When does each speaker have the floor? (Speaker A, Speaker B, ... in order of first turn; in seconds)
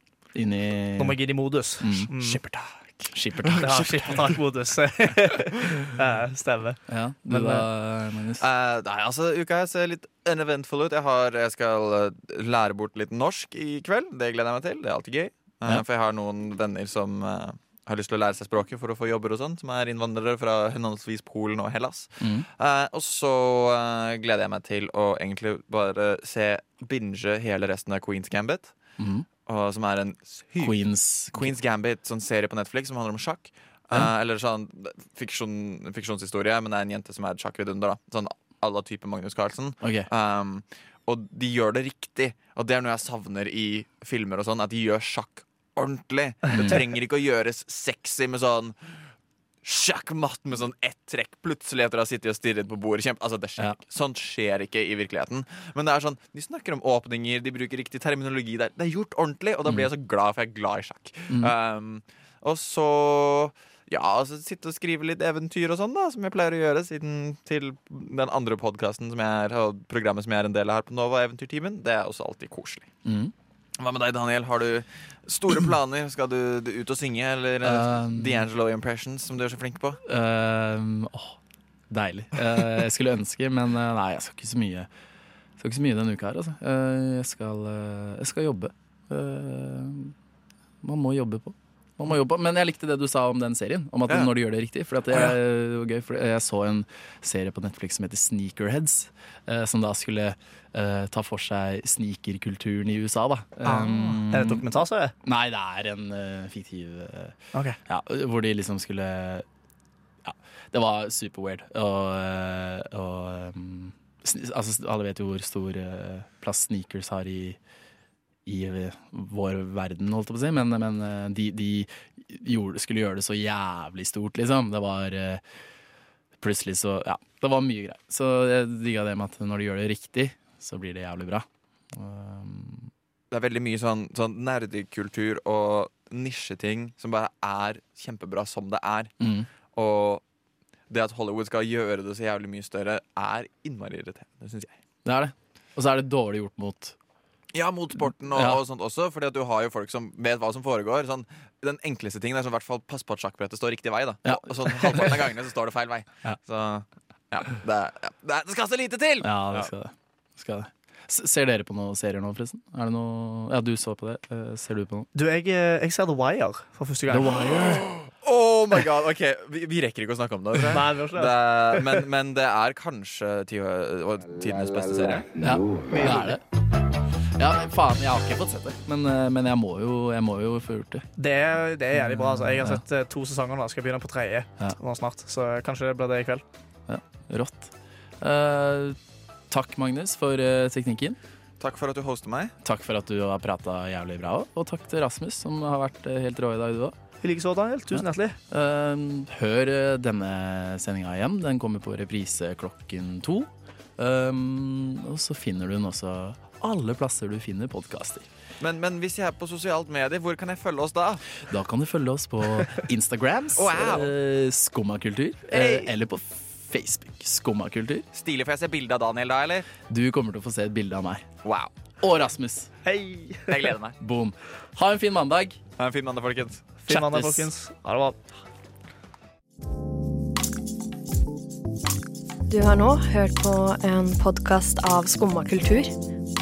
Speaker A: 0.3-1.2, 1.8-2.4, 3.1-4.3, 6.9-8.4, 22.2-22.4, 29.0-29.3, 30.6-31.5, 39.8-40.1, 46.5-46.8, 59.6-59.9, 73.0-73.3, 77.6-78.5, 80.0-81.4, 81.9-84.9, 85.6-90.1, 90.8-104.7, 105.2-109.5, 110.2-117.6, 118.5-125.4, 126.4-132.9, 139.2-139.5, 145.1-146.9, 148.3-148.6, 154.2-155.2, 159.2-165.1, 167.1-167.9, 175.4-176.4, 177.4-181.1, 181.9-182.8, 186.9-189.0, 189.5-191.2, 192.6-196.9, 197.9-208.3, 211.4-218.1, 219.9-221.3, 222.0-222.7, 224.0-225.6, 226.9-227.5
Speaker B: 1.0-2.4, 3.5-7.6, 103.6-105.1, 165.1-167.5, 170.7-171.3, 175.9-176.3, 181.2-186.4, 197.2-198.4, 222.8-223.7, 226.9-228.2
Speaker C: 2.4-3.1, 8.4-28.7, 29.4-30.8, 31.3-48.8, 49.6-72.9, 73.8-80.0, 133.3-139.1, 139.7-140.2, 140.9-144.8, 147.5-159.7, 167.9-175.3, 191.6-192.5, 208.6-211.4, 213.6-214.1, 218.1-219.7, 221.4-221.7, 223.5-224.0, 225.8-226.7
Speaker D: 232.5-235.9